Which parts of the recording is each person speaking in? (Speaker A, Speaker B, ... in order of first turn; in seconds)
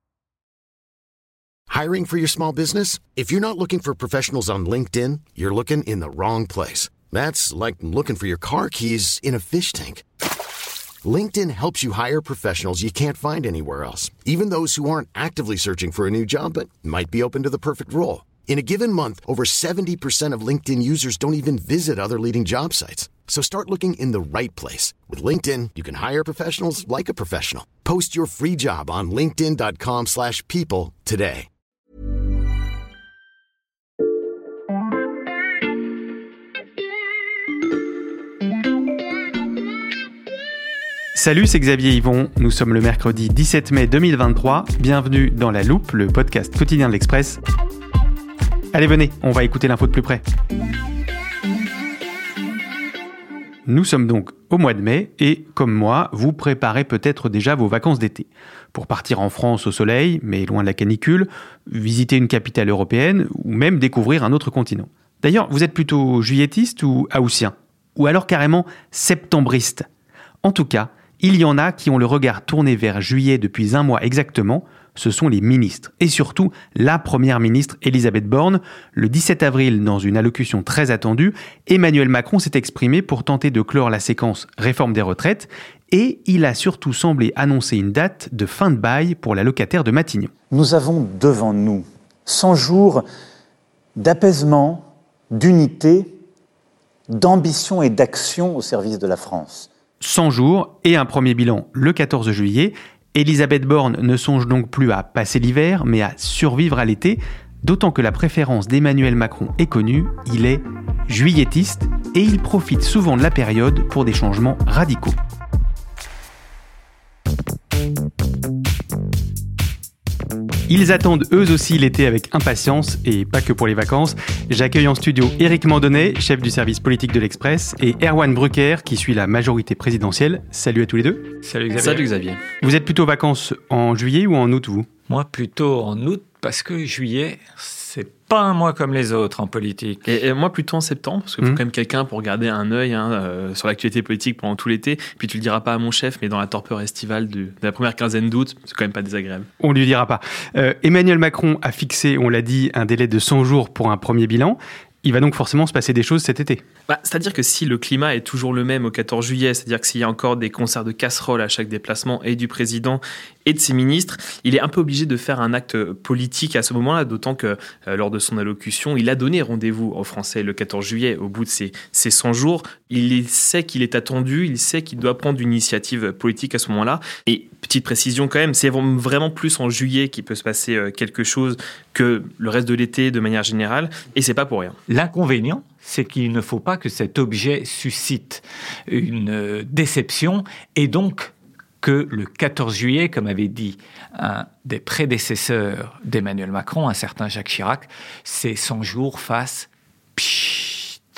Speaker A: 1.7-10.0, 11.0-31.5
Speaker B: 41.1-47.4, 48.7-50.2, 53.6-69.9, 70.4-90.3, 100.0-115.2, 120.7-131.3, 132.6-134.9, 149.6-156.6
Speaker C: 90.5-93.0, 94.0-96.2, 97.1-99.7
Speaker D: 131.4-132.1, 135.1-140.0, 184.9-201.0
Speaker E: 131.8-132.4, 140.1-149.5, 156.9-184.8